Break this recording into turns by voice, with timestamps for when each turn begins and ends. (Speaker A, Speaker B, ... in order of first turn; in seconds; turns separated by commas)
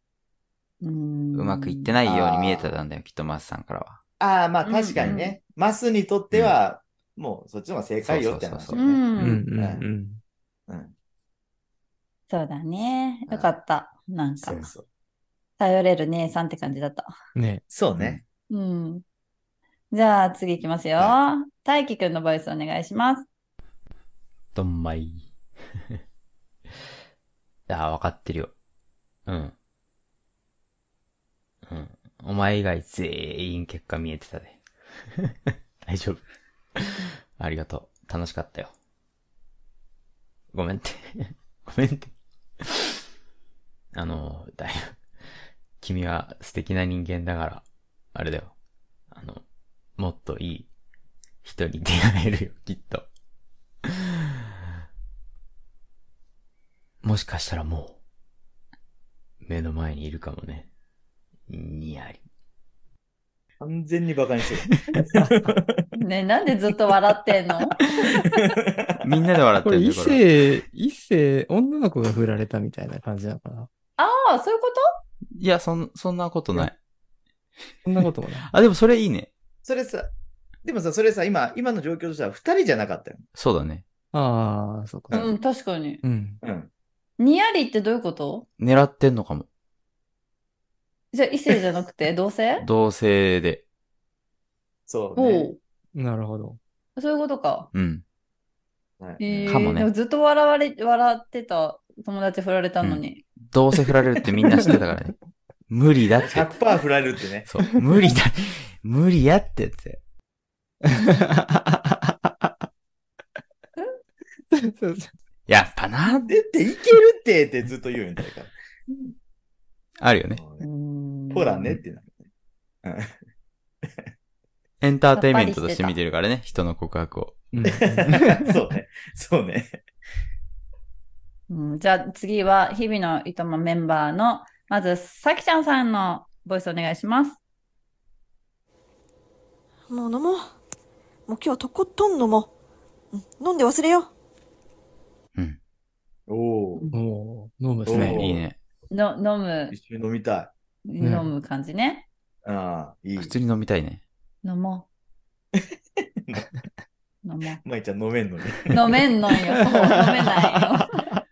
Speaker A: 0.8-1.9, Speaker B: 1.4-4.0, Speaker C: 2.0-2.7, Speaker C: 4.2-9.8, Speaker A: 4.7-5.4, Speaker B: 8.0-9.3, Speaker A: 8.7-9.4, Speaker D: 9.2-10.2, Speaker C: 10.7-10.9, Speaker A: 12.3-14.7, Speaker C: 13.3-13.5, Speaker C: 14.4-14.8, Speaker A: 15.6-17.1, Speaker D: 17.4-17.6, Speaker C: 17.7-18.2, Speaker A: 18.5-19.0, Speaker A: 19.9-23.3, Speaker B: 24.6-25.3, Speaker B: 27.7-28.5, Speaker B: 29.3-29.5, Speaker B: 31.7-34.6, Speaker B: 35.8-36.2, Speaker B: 36.8-38.7, Speaker B: 40.5-42.8, Speaker B: 43.9-45.0, Speaker B: 45.8-48.5, Speaker B: 49.1-49.4, Speaker B: 50.0-50.7, Speaker B: 51.4-53.1, Speaker B: 57.0-58.0, Speaker B: 59.4-60.7, Speaker B: 61.5-62.2, Speaker C: 63.6-65.8, Speaker A: 66.0-67.8, Speaker C: 68.7-69.0, Speaker B: 69.0-70.2, Speaker D: 69.6-73.7, Speaker A: 74.0-74.9, Speaker B: 75.4-76.8, Speaker D: 77.8-78.5, Speaker B: 78.4-79.3, Speaker C: 79.6-80.1, Speaker C: 80.6-83.2, Speaker B: 83.3-83.8, Speaker D: 84.1-85.3, Speaker A: 85.1-86.0, Speaker D: 86.0-86.4, Speaker C: 86.4-86.7, Speaker A: 87.2-88.5, Speaker B: 88.6-89.5, Speaker A: 91.1-92.6, Speaker B: 92.6-93.6, Speaker C: 94.9-95.5, Speaker A: 95.2-95.6, Speaker D: 96.0-96.6, Speaker A: 97.0-97.7, Speaker B: 97.7-98.0, Speaker C: 99.0-99.6, Speaker A: 99.2-103.2, Speaker B: 99.5-99.9, Speaker B: 102.8-105.2, Speaker B: 105.7-106.5, Speaker C: 106.3-107.5, Speaker B: 107.5-110.0, Speaker D: 114.5-115.1, Speaker B: 115.5-116.3, Speaker C: 116.3-118.5, Speaker B: 120.0-120.4, Speaker C: 120.3-120.7, Speaker A: 120.6-121.8, Speaker C: 121.3-122.2, Speaker C: 122.8-123.2, Speaker B: 124.8-127.5, Speaker A: 125.2-126.0, Speaker D: 127.5-128.6, Speaker C: 127.7-129.8, Speaker A: 131.5-137.4, Speaker E: 139.9-140.5, Speaker E: 141.3-142.5, Speaker E: 143.1-144.1, Speaker C: 146.3-146.8, Speaker D: 146.9-148.2, Speaker C: 147.9-148.5, Speaker B: 147.9-148.6, Speaker A: 148.9-149.8, Speaker C: 149.7-150.5, Speaker A: 150.9-152.1, Speaker D: 151.0-151.3, Speaker C: 152.4-153.3, Speaker B: 153.2-154.0, Speaker A: 154.4-154.9, Speaker C: 156.2-156.4, Speaker A: 157.2-157.6, Speaker C: 157.6-158.9, Speaker A: 158.7-160.8, Speaker D: 159.5-161.2